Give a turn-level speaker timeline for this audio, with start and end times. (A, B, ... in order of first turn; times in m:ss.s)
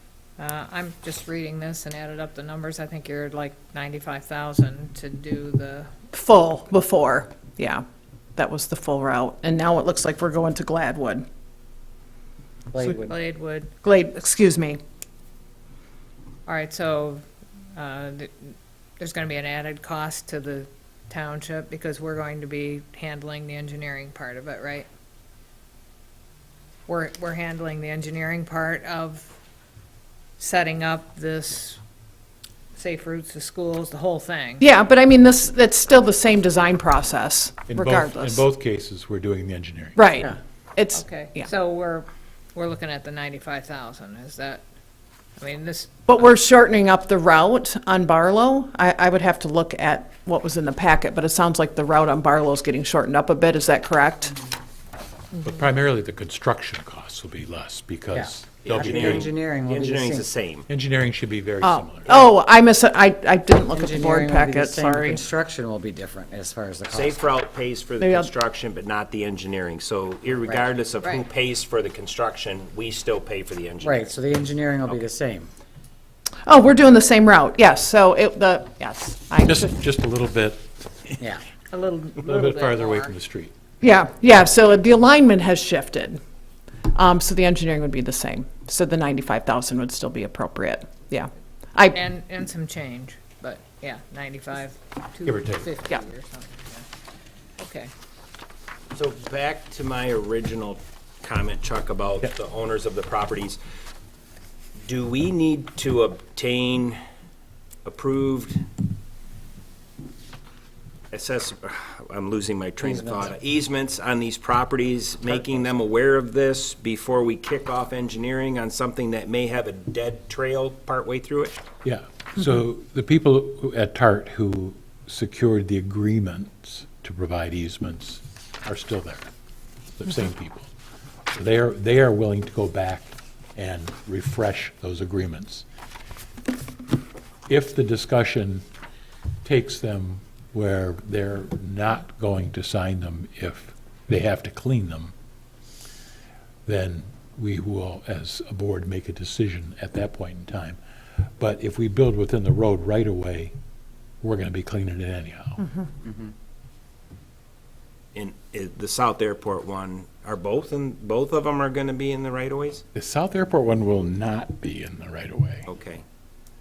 0:00.4-0:05.9 A
0:06.1-0:07.8 B
0:08.4-0:11.2 B
0:12.7-0:13.1 C
0:12.8-0:13.7 A
0:13.8-0:14.8 B
0:16.5-0:17.2 A
0:17.8-0:24.9 A
0:26.9-0:29.3 A
0:30.4-0:31.8 A
0:32.8-0:34.7 A
0:34.6-0:38.4 B
0:37.7-0:40.1 D
0:40.0-0:41.5 B
0:40.9-0:44.6 A
0:45.4-0:45.9 A
0:46.1-0:54.4 B
0:55.4-0:59.3 D
0:58.1-1:00.3 C
0:58.6-1:00.7 E
1:00.7-1:02.2 D
1:01.6-1:05.2 B
1:03.7-1:07.2 C
1:06.9-1:14.2 E
1:08.0-1:08.3 B
1:13.8-1:15.5 C
1:16.4-1:19.7 B
1:19.4-1:21.2 D
1:21.7-1:23.1 A
1:22.2-1:23.5 D
1:23.8-1:26.2 B
1:26.9-1:32.0 B
1:31.9-1:36.9 A
1:35.3-1:35.7 D
1:37.6-1:37.9 A
1:38.9-1:43.6 E
1:44.9-1:47.0 E
1:47.8-1:48.6 E
1:51.1-2:01.6 E
1:52.8-1:53.2 C
2:01.8-2:09.3 D
2:10.0-2:10.7 D
2:11.3-2:15.6 D
2:17.5-2:18.6 D
2:19.4-2:25.1 D
2:26.7-2:30.8 D
2:31.4-2:33.6 D
2:34.2-2:35.6 D
2:38.2-2:42.8 E
2:42.9-2:45.7 D
2:45.7-2:46.0 E